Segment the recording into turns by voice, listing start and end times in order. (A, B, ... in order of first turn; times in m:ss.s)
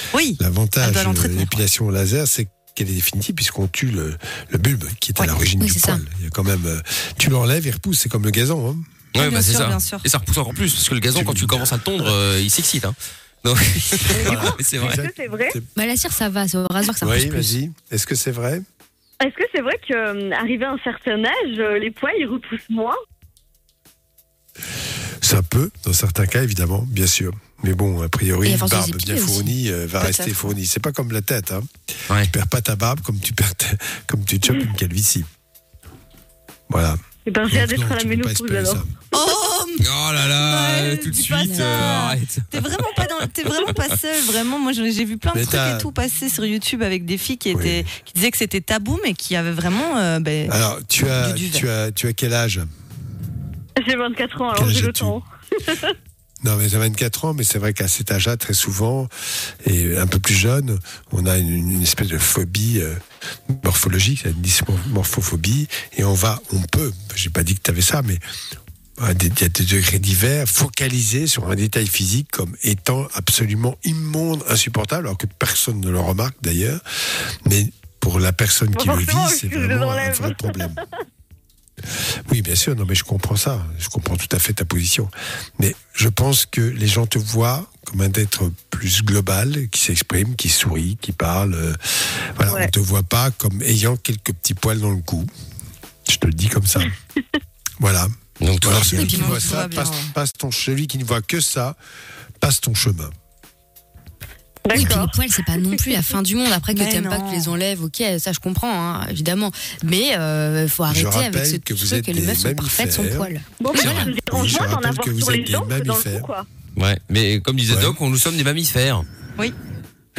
0:00.1-0:01.6 A
0:00.3-0:08.8 B
0:05.6-0:06.0 C
0:09.1-0:15.0 D
0:09.2-0:10.0 A
0:11.1-0:11.7 B
0:14.1-0:15.6 B
0:14.1-0:15.6 E
0:15.8-0:17.5 C
0:17.0-0:18.6 B
0:19.2-0:23.0 E
0:25.2-0:31.7 B
0:28.4-0:29.5 C
0:30.0-0:30.5 A
0:32.2-0:35.3 B
0:36.7-0:38.9 B
0:37.2-0:38.8 E
0:39.1-0:51.6 A
0:39.8-0:43.7 D
0:45.3-0:45.9 B
0:47.5-0:47.8 B
0:50.5-0:52.7 B
0:53.8-0:55.9 E
0:54.5-0:55.2 B
0:56.4-0:59.1 B
0:59.6-1:03.0 B
1:03.5-1:08.2 B
1:09.0-1:16.8 B
1:17.4-1:20.8 B
1:18.7-1:20.8 E
1:22.2-1:35.3 B
1:36.1-1:36.9 B
1:37.8-1:41.8 B
1:38.4-1:39.3 D
1:38.7-1:40.1 A
1:42.4-1:43.1 B
1:44.6-1:45.2 E
1:44.7-1:54.1 C
1:44.8-1:45.0 B
1:46.7-1:47.5 A
1:50.9-1:53.3 B
1:53.6-1:56.5 E
1:53.9-1:56.3 B
1:56.8-1:59.0 D
1:57.7-1:58.0 B